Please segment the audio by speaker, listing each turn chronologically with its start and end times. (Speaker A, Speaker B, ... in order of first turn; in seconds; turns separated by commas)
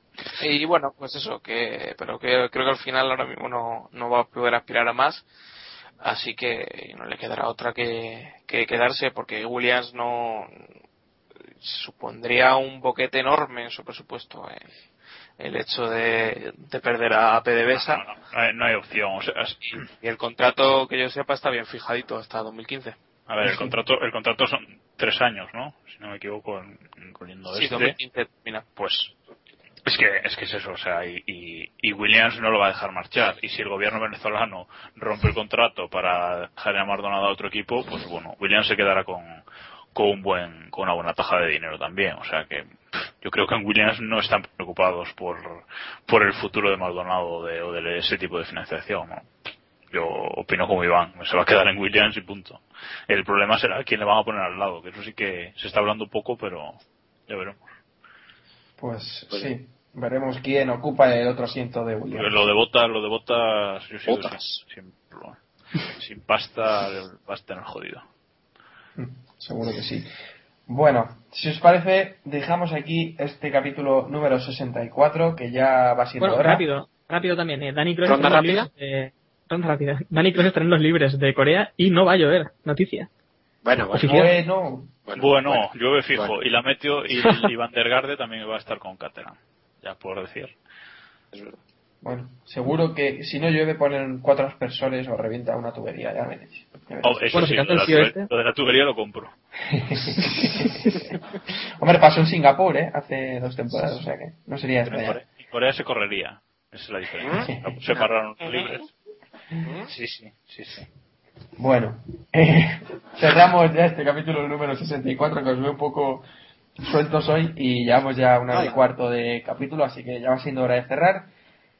Speaker A: 0.4-5.3, Speaker A: 6.0-10.6, Speaker A: 11.6-14.7, Speaker A: 15.4-18.0, Speaker B: 17.7-19.9, Speaker A: 19.7-23.0, Speaker B: 23.3-28.0, Speaker A: 27.5-28.7, Speaker B: 28.8-29.1, Speaker B: 29.9-39.4, Speaker B: 39.9-49.3, Speaker B: 49.9-57.7, Speaker C: 58.8-62.5, Speaker B: 62.1-65.4, Speaker D: 64.1-64.6, Speaker B: 66.0-68.0, Speaker C: 69.0-70.1, Speaker C: 70.7-76.7, Speaker E: 76.2-83.1, Speaker D: 78.0-78.7, Speaker D: 83.6-84.3, Speaker E: 83.9-84.3, Speaker C: 84.0-85.0, Speaker D: 85.1-86.3, Speaker B: 85.2-90.5, Speaker D: 91.3-91.6, Speaker C: 92.0-97.5, Speaker B: 97.0-99.3, Speaker E: 97.3-98.3, Speaker C: 99.7-105.2, Speaker B: 104.9-108.9, Speaker D: 107.2-107.5, Speaker C: 107.5-107.8, Speaker A: 107.9-108.8, Speaker D: 109.6-109.9, Speaker B: 109.9-110.9, Speaker C: 111.6-116.3, Speaker C: 116.8-121.3, Speaker D: 118.5-118.8